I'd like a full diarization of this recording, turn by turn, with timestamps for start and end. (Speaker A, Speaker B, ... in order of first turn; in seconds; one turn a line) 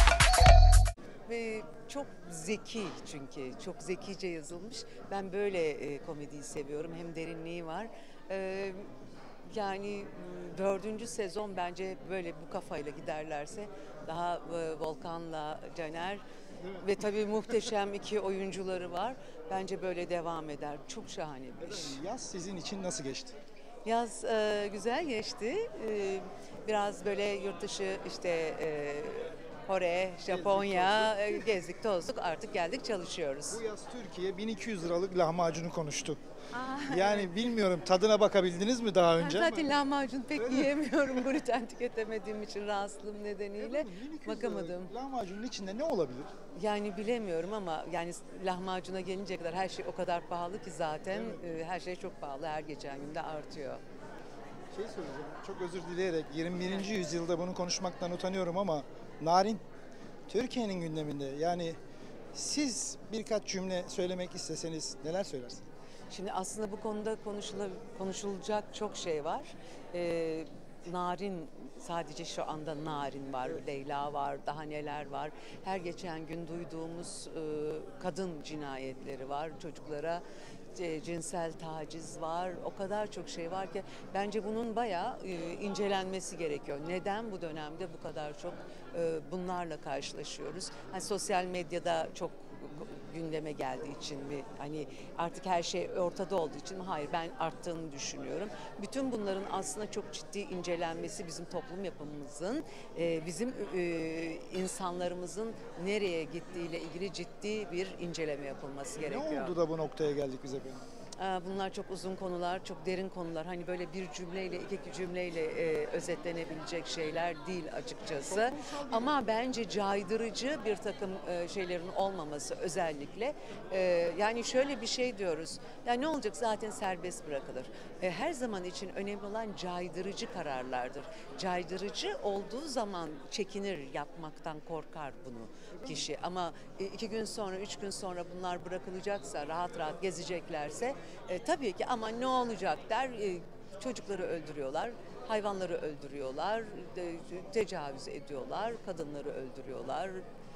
Speaker A: 1.2-8.9
Speaker A: 9.5-16.2
Speaker B: 16.6-16.9
Speaker A: 16.8-22.1
Speaker B: 21.6-23.4
Speaker A: 23.8-33.6
Speaker B: 30.3-31.5
Speaker B: 33.5-36.2
Speaker A: 36.5-37.4
Speaker B: 36.8-39.7
Speaker A: 39.2-44.9
Speaker B: 40.3-41.1
Speaker B: 43.5-46.3
Speaker A: 46.5-53.8
Speaker B: 51.1-51.5
Speaker B: 54.7-59.6
Speaker A: 56.6-56.9
Speaker B: 60.3-61.8
Speaker B: 62.3-65.6
Speaker A: 66.1-80.2
Speaker A: 80.7-109.6
Speaker B: 109.0-110.8
Speaker A: 111.2-150.2
Speaker B: 118.2-119.2
Speaker B: 135.7-136.1